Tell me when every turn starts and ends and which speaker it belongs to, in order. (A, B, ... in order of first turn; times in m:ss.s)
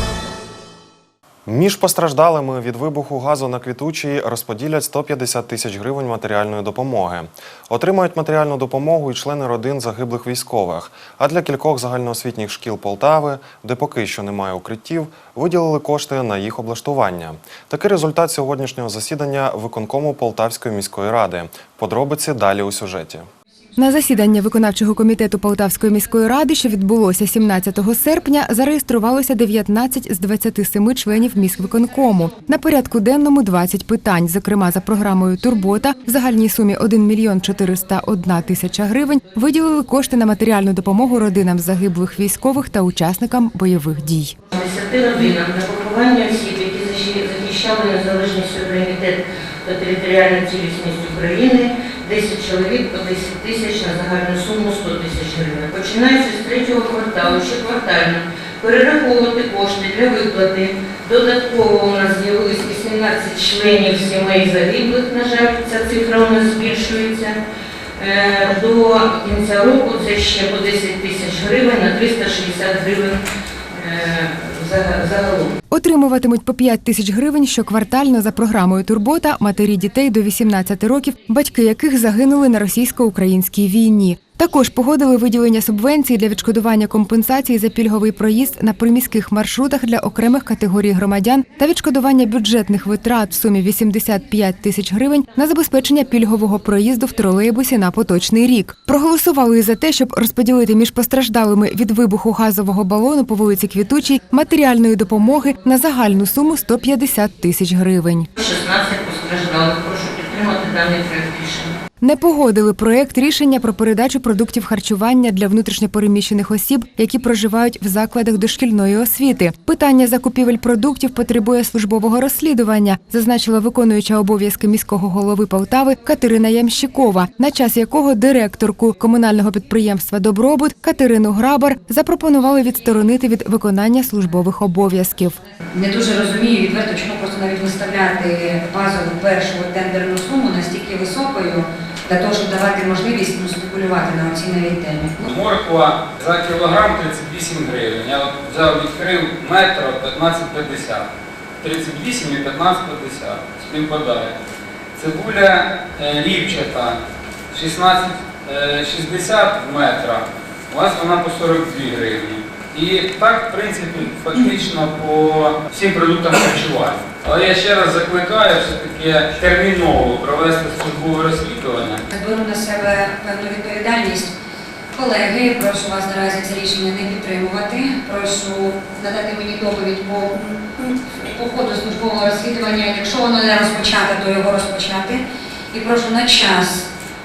0:01.5-0:23.2 A
0:23.8-0:44.3 B
0:44.6-1:07.4 C
1:08.0-1:13.2 C
1:13.8-1:15.5 C
1:15.7-1:48.3 B
1:48.4-1:51.7 C
1:52.0-2:15.4 B
2:15.8-2:25.2 D
2:25.2-2:31.0 E
2:31.6-2:34.3 E
2:35.0-2:36.9 E
2:37.5-2:52.0 E
2:52.1-2:54.3 D
2:54.9-3:06.8 D